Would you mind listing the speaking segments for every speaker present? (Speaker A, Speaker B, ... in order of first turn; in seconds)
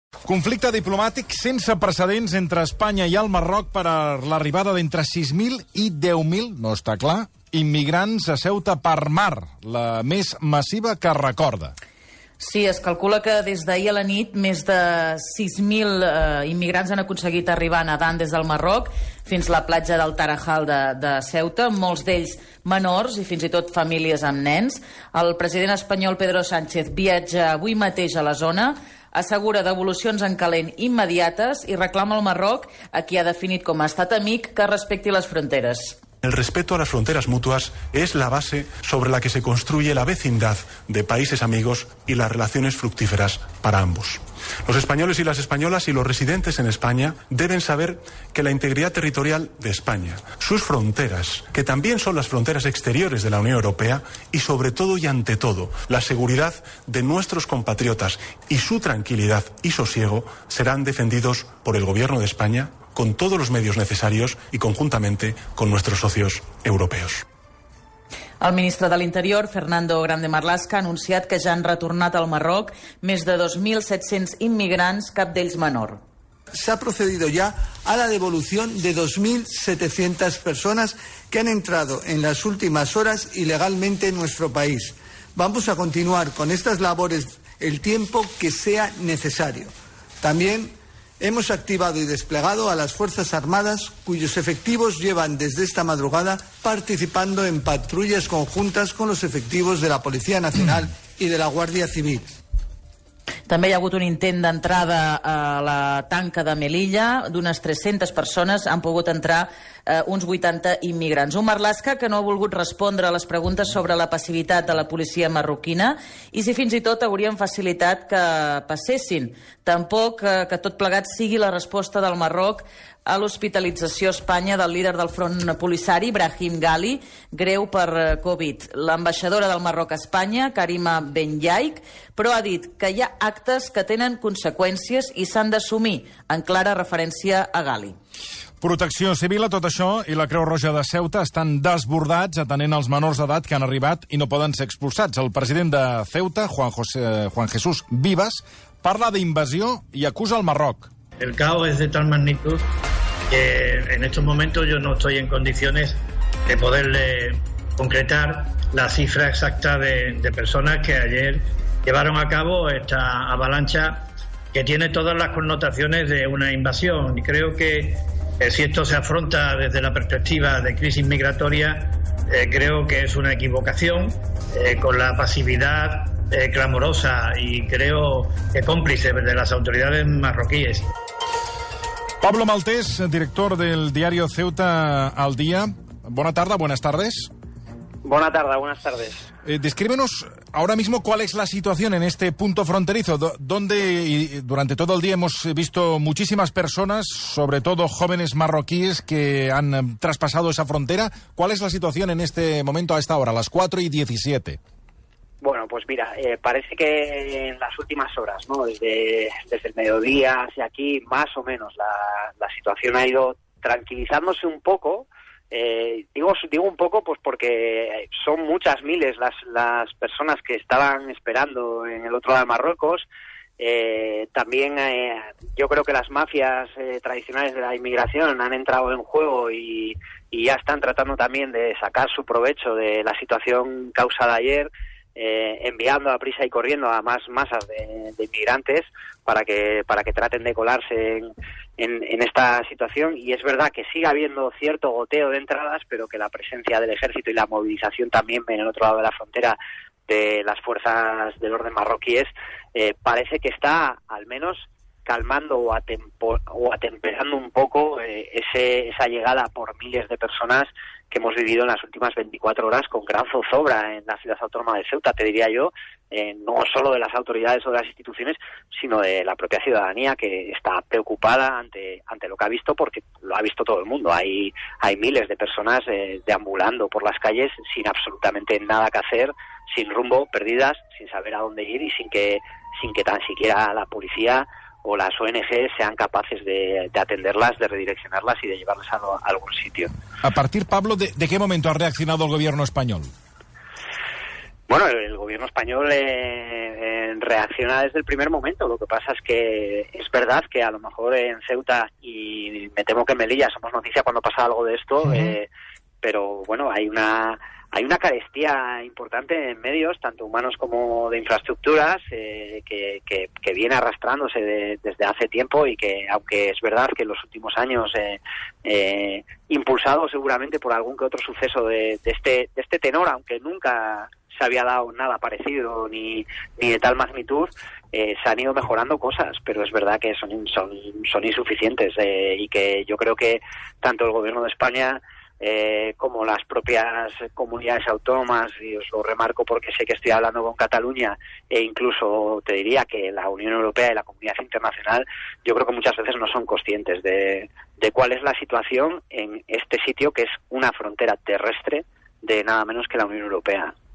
Speaker A: 0.2-11.7, 138.6-150.9, 182.2-187.3, 189.4-204.6, 290.2-293.1
Speaker B: 12.4-36.0, 68.4-76.0, 103.5-138.0
Speaker C: 36.2-67.2
Speaker D: 76.5-102.3
Speaker E: 151.2-152.7, 153.3-180.9
Speaker F: 188.0-189.3, 205.4-223.1, 223.6-289.9, 294.7-305.5, 306.0-353.7